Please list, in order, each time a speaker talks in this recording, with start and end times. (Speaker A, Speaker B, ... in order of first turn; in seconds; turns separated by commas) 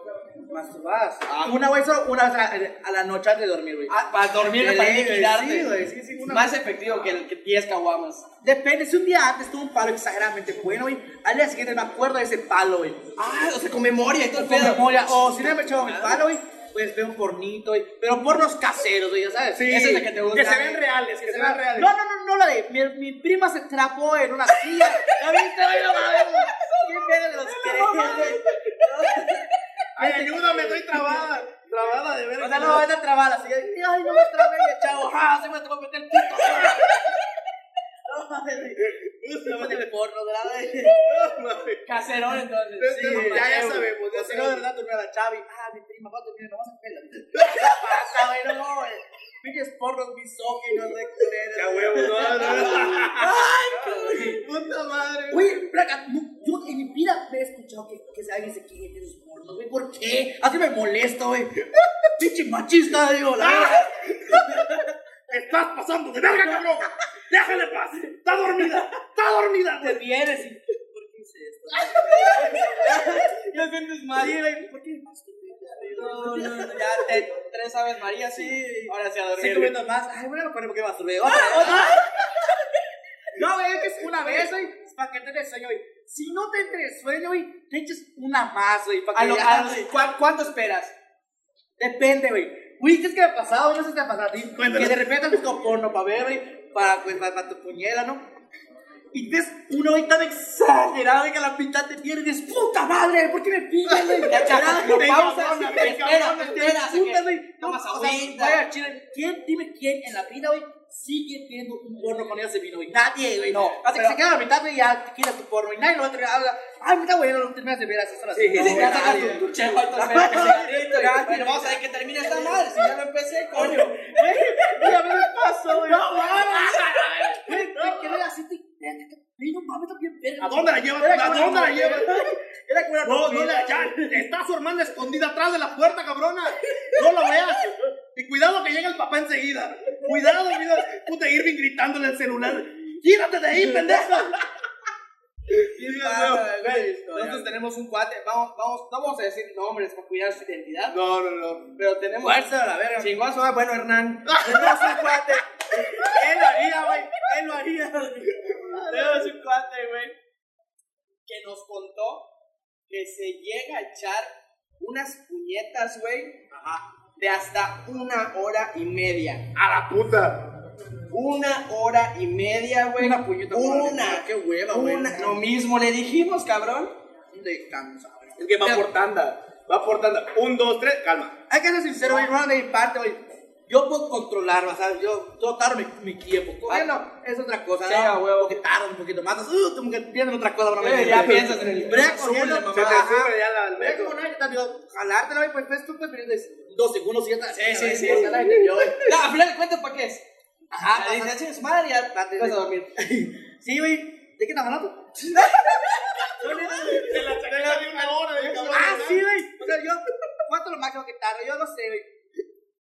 Speaker A: 0.5-3.9, Speaker B: 1.3-1.6, Speaker B: 3.9-8.2, Speaker A: 4.5-6.5, Speaker A: 8.4-13.1, Speaker B: 13.2-16.2, Speaker A: 14.3-20.0, Speaker C: 19.6-21.9, Speaker B: 19.6-20.9, Speaker A: 21.2-31.4, Speaker B: 26.6-28.9, Speaker C: 30.0-32.9, Speaker A: 32.4-37.0, Speaker C: 36.4-36.9, Speaker A: 38.1-41.0, Speaker C: 38.8-39.9, Speaker C: 40.7-41.9, Speaker B: 41.9-43.9, Speaker C: 42.8-44.6, Speaker A: 42.9-43.5, Speaker A: 44.1-54.4, Speaker C: 47.3-47.8, Speaker C: 51.5-53.3, Speaker B: 52.4-54.3, Speaker C: 54.0-55.5, Speaker A: 55.3-64.8, Speaker C: 63.5-64.5, Speaker C: 65.3-70.0, Speaker A: 69.8-73.6, Speaker C: 71.9-72.8, Speaker B: 72.0-74.4, Speaker A: 74.1-77.3, Speaker B: 75.8-79.8, Speaker A: 78.3-82.5, Speaker C: 79.4-79.7, Speaker B: 81.2-82.0, Speaker A: 83.3-90.1, Speaker B: 84.1-84.5, Speaker B: 89.2-90.9, Speaker A: 91.8-98.2, Speaker C: 94.6-95.0, Speaker A: 99.1-105.2, Speaker C: 103.9-106.7, Speaker B: 104.2-108.6, Speaker A: 105.8-122.8, Speaker B: 113.5-114.2, Speaker C: 118.3-119.1, Speaker B: 118.5-124.2, Speaker A: 123.5-134.3, Speaker C: 124.7-128.2, Speaker B: 125.5-126.1, Speaker C: 130.4-132.3, Speaker C: 133.0-144.4, Speaker A: 136.9-137.6, Speaker A: 143.0-144.4, Speaker C: 145.5-146.7, Speaker B: 145.8-151.0, Speaker A: 145.8-147.5, Speaker C: 150.9-151.7, Speaker B: 151.8-155.5, Speaker A: 152.2-153.2, Speaker C: 154.3-155.0, Speaker A: 154.4-158.5, Speaker C: 158.5-159.3, Speaker B: 158.9-160.2, Speaker B: 161.3-162.2, Speaker B: 162.9-166.5, Speaker B: 167.2-169.4, Speaker C: 169.6-170.4, Speaker B: 171.1-176.9, Speaker A: 173.0-175.4, Speaker A: 177.3-178.4, Speaker C: 178.4-181.3, Speaker A: 181.5-199.1, Speaker B: 186.7-187.1, Speaker B: 187.9-188.6, Speaker B: 190.8-193.1, Speaker C: 191.1-191.7, Speaker C: 192.7-194.2, Speaker B: 197.5-198.4, Speaker C: 198.3-198.8, Speaker B: 199.0-200.3, Speaker A: 200.7-201.4, Speaker B: 200.9-202.9, Speaker A: 202.1-205.4, Speaker B: 205.3-206.6, Speaker A: 206.3-212.1, Speaker C: 206.8-209.3